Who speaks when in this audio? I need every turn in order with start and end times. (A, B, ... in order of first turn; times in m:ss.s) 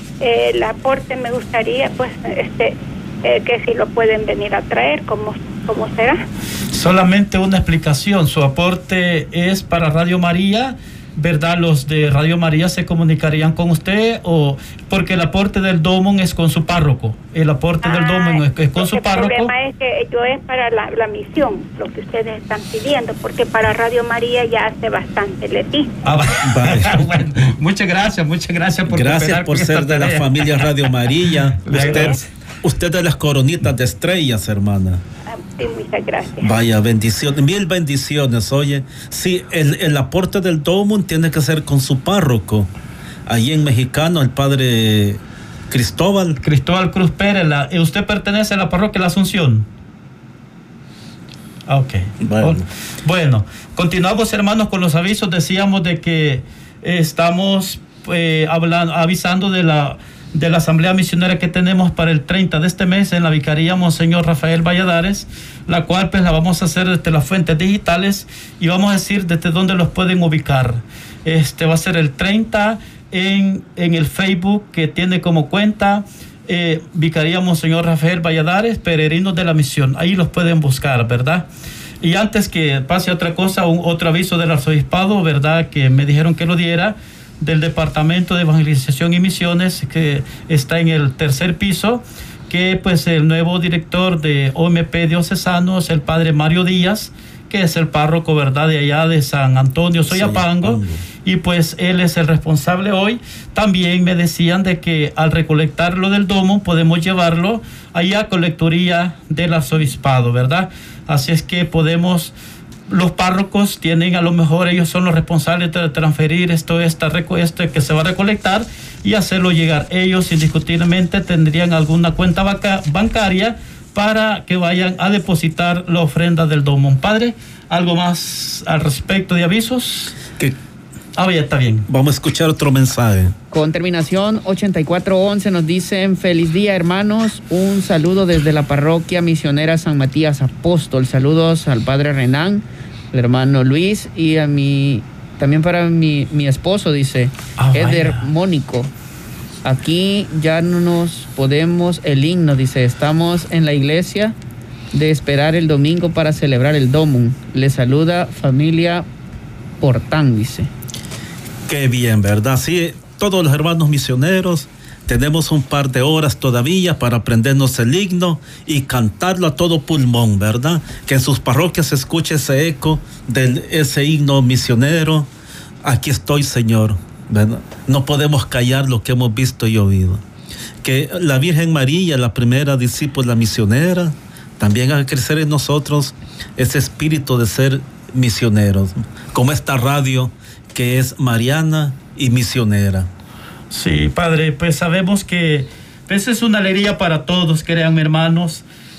0:00.2-0:06.2 A
0:06.7-0:19.5 B
0:17.8-0:26.0 A
0:26.0-0:30.7 B
0:26.4-0:27.3 C
0:28.9-0:35.0 C
0:31.6-0:32.3 B
0:31.8-0:32.2 A
0:35.5-0:36.5 A
0:36.4-0:42.7 C
0:43.3-0:46.4 C
0:46.4-0:49.7 B
0:51.7-1:21.5 B
0:52.2-0:52.7 C
1:22.0-1:52.3 B
1:40.1-1:41.0 C
1:52.9-2:10.2 B
2:11.2-2:11.9 B
2:11.9-2:13.4 C
2:13.5-2:28.9 D
2:27.6-2:28.3 B
2:29.6-2:34.4 D
2:34.9-2:39.1 D
2:39.8-2:40.7 D
2:41.7-2:55.3 C
2:55.8-3:00.2 C
3:00.8-3:13.1 C
3:13.7-3:18.7 B